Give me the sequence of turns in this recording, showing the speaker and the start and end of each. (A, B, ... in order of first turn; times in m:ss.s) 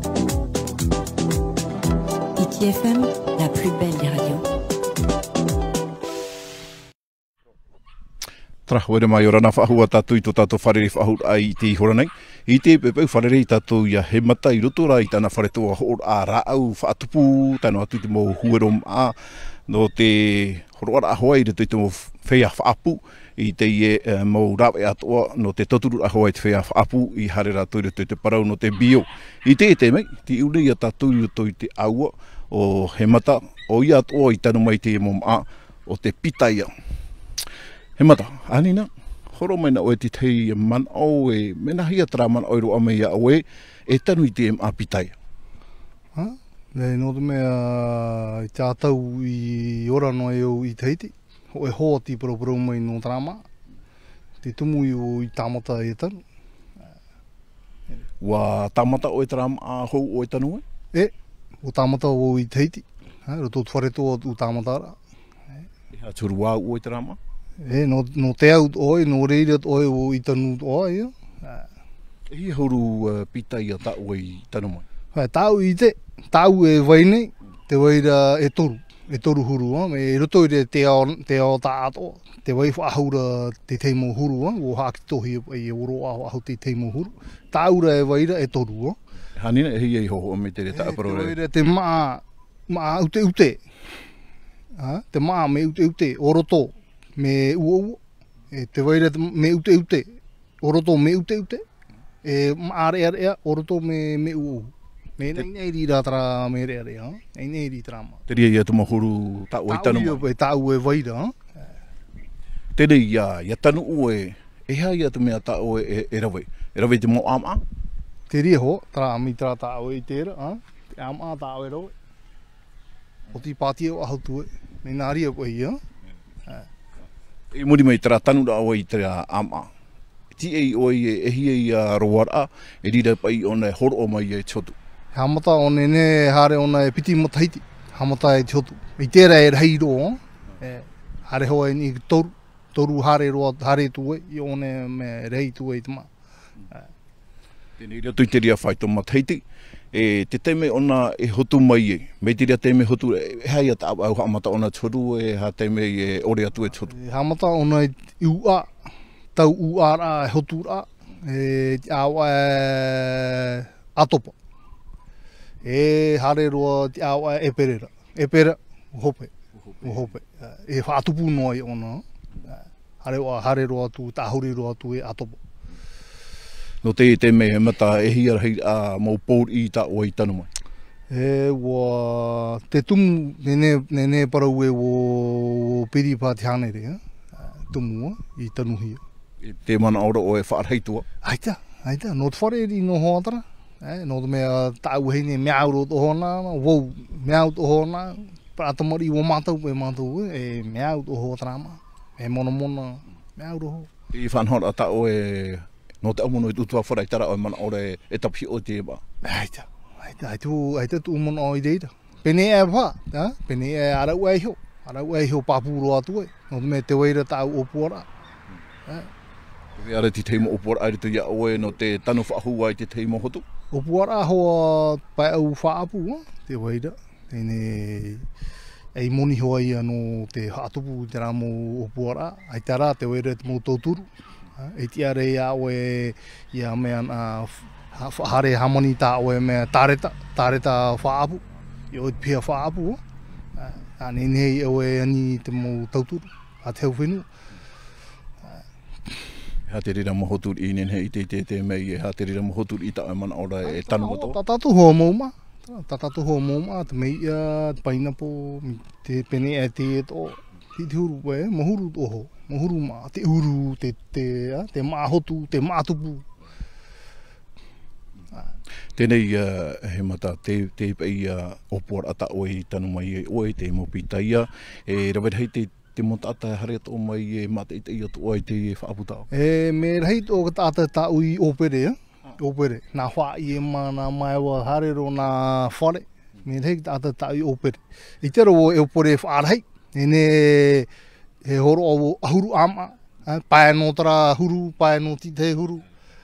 0:02.4-0:04.4 A
0:08.7-0:36.7 B
0:38.0-0:45.2 B
0:46.1-0:53.4 C
0:54.4-0:56.2 C
0:58.2-1:00.6 B
1:01.6-1:05.0 C
1:05.9-1:07.2 B
1:07.6-1:11.7 C
1:12.3-1:14.8 B
1:15.1-1:29.0 C
1:29.4-1:31.4 B
1:30.7-1:33.6 C
1:34.8-1:38.0 C
1:38.5-1:41.6 C
1:42.2-1:48.2 C
1:48.3-1:50.2 B
1:49.7-1:51.4 C
1:52.8-1:57.6 B
1:58.3-2:01.9 C
2:03.3-2:05.8 C
2:07.5-2:09.7 B
2:10.3-2:14.7 B
2:15.1-2:26.1 C
2:27.8-2:36.9 B
2:36.9-2:38.7 C
2:39.3-2:44.3 C
2:45.6-2:55.4 C
2:49.8-2:50.0 B
2:56.8-3:00.5 B
3:01.1-3:09.0 C
3:09.4-3:11.0 B
3:11.2-3:23.9 C
3:24.1-3:29.0 B
3:29.2-3:38.0 C
3:39.8-3:43.4 B
3:43.7-3:48.2 C
3:48.9-4:03.0 C
4:03.6-4:07.3 C
4:09.7-4:14.4 B
4:13.6-4:26.2 C
4:29.0-4:39.3 B
4:39.3-4:50.9 C
4:51.4-4:55.9 C